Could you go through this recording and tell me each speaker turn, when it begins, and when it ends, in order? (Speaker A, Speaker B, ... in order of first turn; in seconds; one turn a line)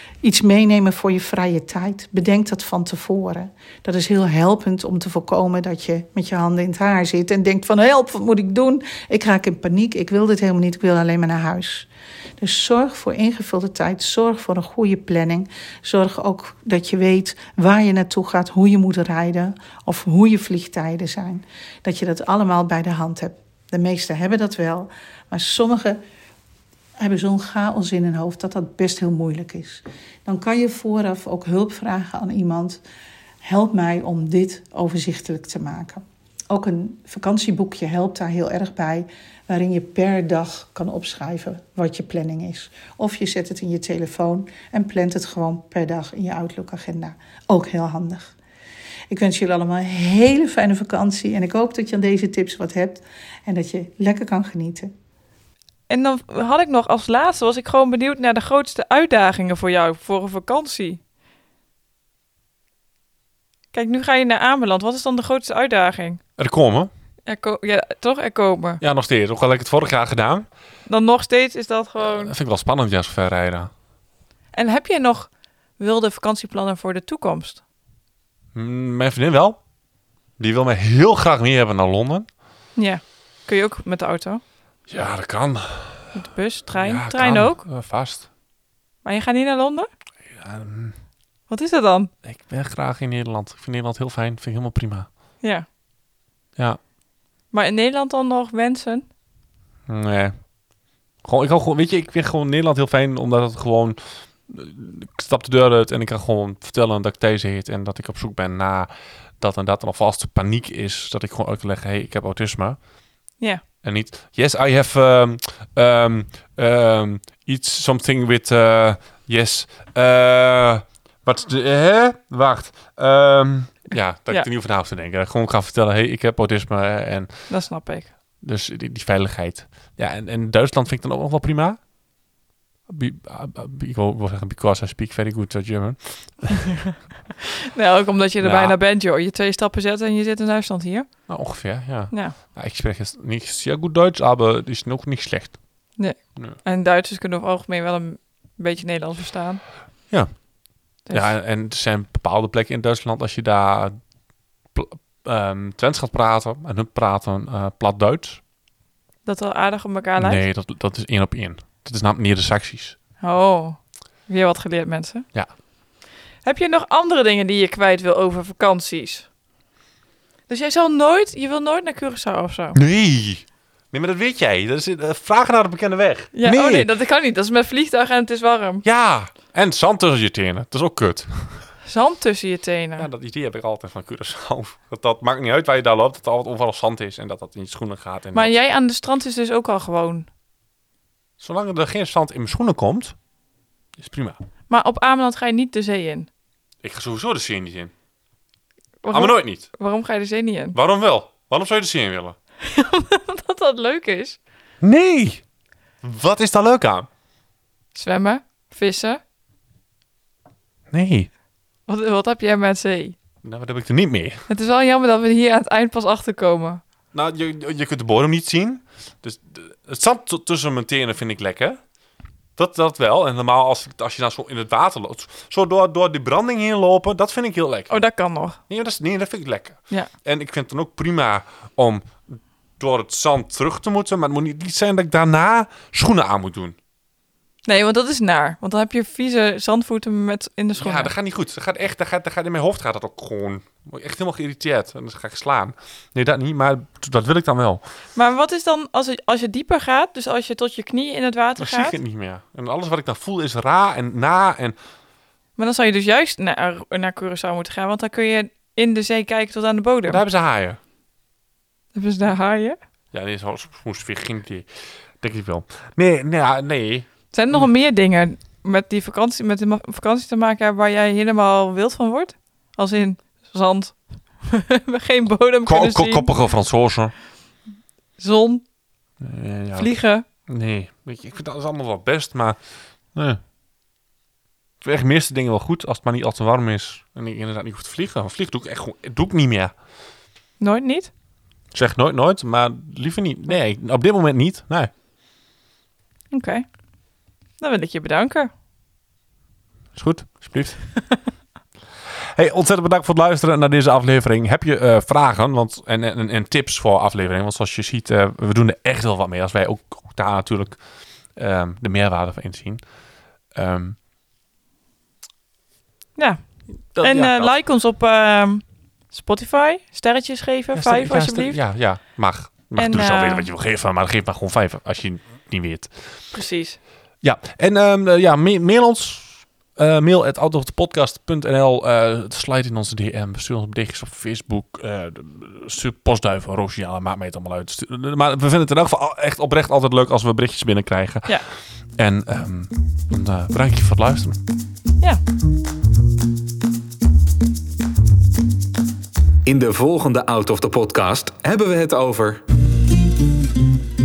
Speaker A: 0.2-26.0
Speaker A: 27.0-32.8
Speaker A: 33.4-48.3
Speaker A: 49.1-54.9
Speaker B: 55.9-61.0
Speaker B: 63.7-66.2
Speaker C: 66.4-66.9
Speaker B: 67.2-68.8
Speaker C: 68.8-70.5
Speaker B: 70.9-72.3
Speaker C: 72.0-73.7
Speaker B: 74.5-77.6
Speaker C: 78.5-79.6
Speaker C: 80.4-82.3
Speaker B: 82.8-84.4
Speaker C: 84.9-86.1
Speaker B: 86.1-87.6
Speaker C: 86.7-88.3
Speaker B: 89.0-89.9
Speaker C: 90.3-90.9
Speaker B: 91.5-92.1
Speaker C: 92.2-95.1
Speaker B: 95.4-95.7
Speaker B: 97.5-99.1
Speaker C: 99.9-100.4
Speaker C: 101.2-112.8
Speaker C: 113.8-127.5
Speaker B: 127.5-128.1
Speaker C: 128.4-131.8
Speaker C: 132.9-136.6
Speaker B: 137.6-141.1
Speaker C: 138.4-138.7
Speaker C: 141.3-145.6
Speaker B: 146.0-149.6
Speaker B: 151.1-151.3
Speaker C: 151.1-154.0
Speaker C: 154.7-158.4
Speaker B: 159.2-160.4
Speaker C: 160.2-163.0
Speaker B: 163.2-165.2
Speaker B: 166.4-169.3
Speaker B: 170.5-172.8
Speaker C: 172.7-176.9
Speaker B: 176.3-178.8
Speaker C: 178.8-181.7
Speaker B: 181.8-183.1
Speaker C: 183.0-188.5
Speaker B: 188.3-190.3
Speaker C: 191.4-193.2
Speaker C: 194.0-194.4
Speaker B: 194.7-196.3
Speaker C: 196.8-197.9
Speaker B: 199.0-200.8
Speaker C: 199.1-199.7
Speaker C: 200.7-202.3
Speaker B: 202.6-204.4
Speaker C: 204.8-205.4
Speaker C: 206.0-207.1
Speaker B: 207.9-209.2
Speaker C: 210.9-211.3
Speaker B: 211.9-213.2
Speaker C: 213.4-214.4
Speaker B: 214.5-216.8
Speaker C: 217.1-221.8
Speaker C: 222.6-227.9
Speaker B: 227.9-228.6
Speaker C: 228.7-236.7
Speaker B: 237.6-241.1
Speaker C: 240.8-247.8
Speaker B: 248.1-252.0
Speaker C: 251.6-254.8
Speaker B: 255.6-260.2
Speaker C: 260.1-260.8
Speaker B: 261.9-262.8
Speaker C: 263.1-264.7
Speaker C: 265.2-267.6
Speaker B: 267.3-276.3
Speaker C: 275.6-277.1
Speaker B: 278.2-278.6
Speaker C: 279.2-279.9
Speaker B: 279.8-280.2
Speaker C: 280.5-282.6
Speaker C: 283.1-283.4
Speaker C: 284.8-289.7
Speaker B: 290.6-291.1
Speaker C: 291.7-294.9
Speaker B: 296.3-296.6
Speaker B: 297.6-298.5
Speaker C: 299.9-300.8
Speaker C: 302.3-310.8
Speaker C: 311.3-312.8
Speaker C: 313.5-314.0
Speaker B: 316.1-316.4
Speaker C: 316.9-317.6
Speaker B: 317.0-321.6
Speaker C: 320.7-326.1
Speaker B: 322.8-323.5
Speaker B: 326.3-326.8
Speaker C: 327.2-341.4
Speaker C: 342.0-344.4
Speaker D: 349.4-352.4